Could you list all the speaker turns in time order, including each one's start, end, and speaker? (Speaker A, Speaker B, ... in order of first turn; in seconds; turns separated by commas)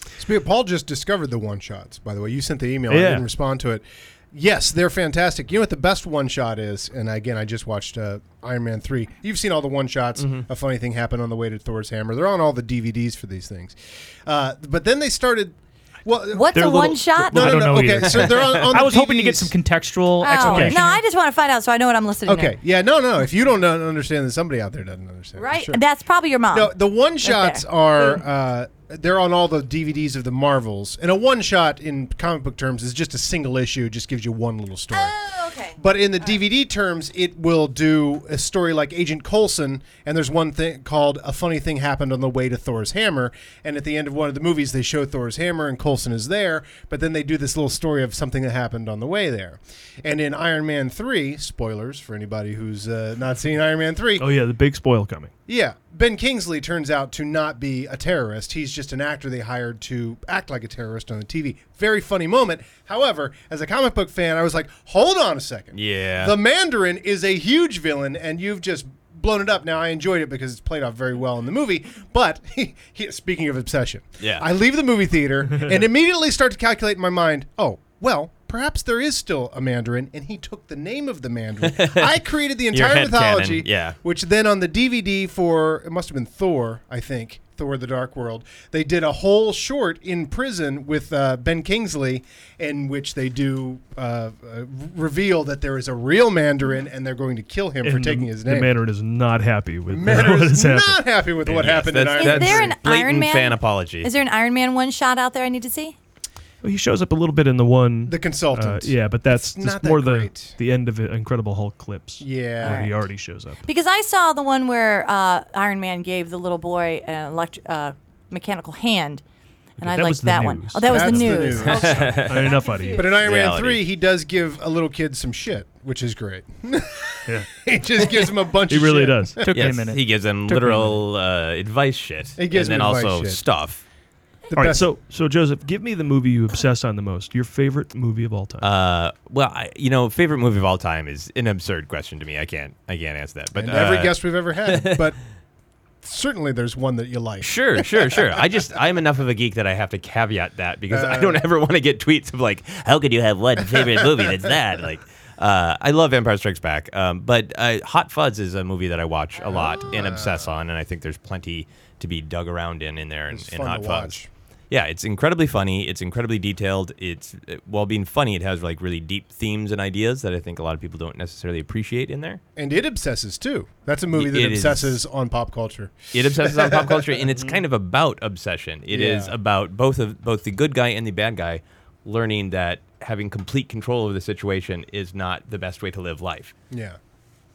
Speaker A: 0.2-19.5, Speaker B: 2.9-3.2, Speaker C: 10.2-10.5, Speaker D: 16.3-17.5, Speaker B: 16.6-17.6, Speaker E: 17.3-21.0, Speaker C: 18.0-18.7, Speaker D: 20.2-22.6, Speaker A: 20.4-20.8, Speaker A: 22.2-25.8, Speaker D: 25.4-28.2, Speaker A: 26.5-35.1, Speaker D: 34.9-36.4, Speaker A: 35.8-54.3, Speaker B: 54.2-55.3, Speaker A: 55.5-98.7, Speaker C: 65.7-66.3, Speaker C: 74.2-74.5, Speaker C: 81.6-82.2, Speaker C: 82.7-84.0, Speaker B: 97.8-101.0, Speaker A: 99.9-102.8, Speaker C: 101.5-104.1, Speaker D: 102.2-105.9, Speaker B: 106.6-113.6, Speaker A: 108.0-110.6, Speaker A: 112.2-112.8, Speaker D: 112.6-113.0, Speaker D: 113.6-119.2, Speaker B: 119.8-123.2, Speaker D: 119.8-123.1, Speaker A: 120.8-122.2, Speaker C: 121.7-122.5, Speaker A: 122.9-129.5, Speaker C: 123.2-123.8, Speaker B: 128.7-129.5, Speaker E: 129.4-131.0, Speaker C: 129.5-133.8, Speaker A: 132.4-133.4, Speaker A: 134.5-134.9, Speaker B: 134.5-138.7, Speaker C: 138.6-145.0, Speaker A: 143.5-145.2, Speaker A: 146.0-148.2, Speaker C: 147.4-164.2, Speaker A: 150.9-151.4, Speaker A: 159.4-160.5, Speaker A: 163.3-164.3, Speaker C: 164.7-172.4, Speaker A: 172.6-177.1, Speaker C: 174.1-175.0, Speaker C: 176.1-186.5, Speaker A: 178.9-179.3, Speaker A: 186.7-187.0